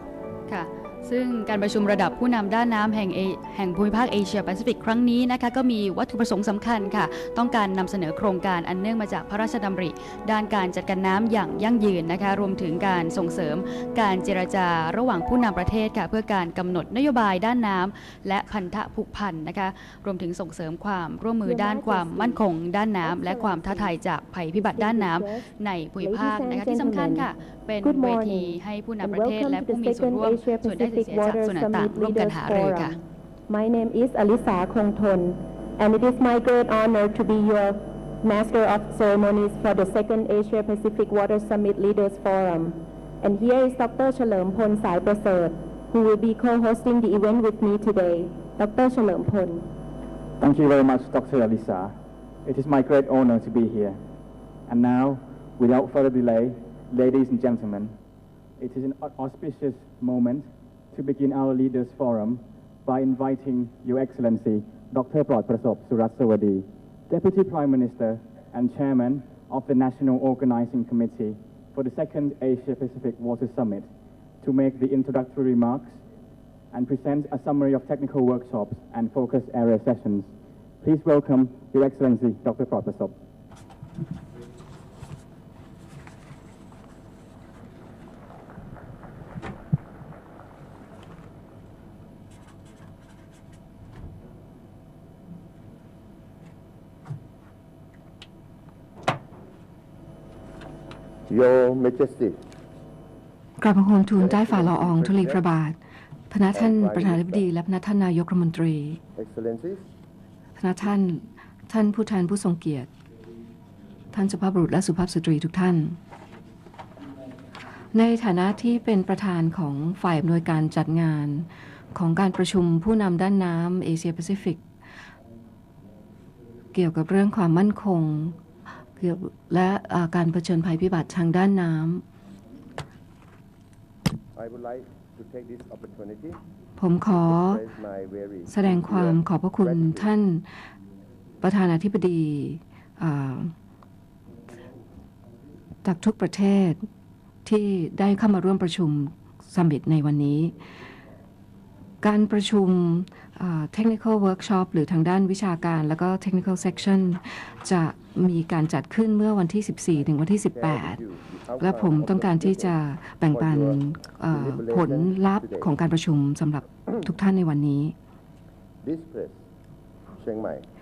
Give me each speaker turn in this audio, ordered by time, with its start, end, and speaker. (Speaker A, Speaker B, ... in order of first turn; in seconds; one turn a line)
Speaker A: 0.5-33.0
Speaker B: 21.4-22.4
Speaker B: 23.0-24.0
Speaker B: 24.5-27.3
Speaker B: 27.8-49.7
Speaker C: 50.4-54.0
Speaker C: 54.7-58.0
Speaker C: 58.6-73.9
Speaker C: 74.4-76.0
Speaker C: 76.7-83.2
Speaker D: 101.3-102.4
Speaker E: 103.6-105.8
Speaker D: 104.2-105.4
Speaker E: 106.3-109.0
Speaker D: 106.5-107.5
Speaker D: 109.2-109.9
Speaker E: 110.6-112.9
Speaker E: 114.1-116.0
Speaker E: 117.9-124.6
Speaker E: 126.7-128.4
Speaker E: 129.0-132.0
Speaker D: 134.3-136.4
Speaker E: 136.8-137.6
Speaker D: 137.2-140.1
Speaker E: 138.5-140.4
Speaker E: 141.4-143.5
Speaker E: 145.8-146.9
Speaker E: 147.4-150.6
Speaker E: 152.0-161.0
Speaker D: 160.5-162.7
Speaker E: 161.6-167.9
Speaker D: 163.2-165.7
Speaker D: 168.8-169.4
Speaker D: 170.1-170.6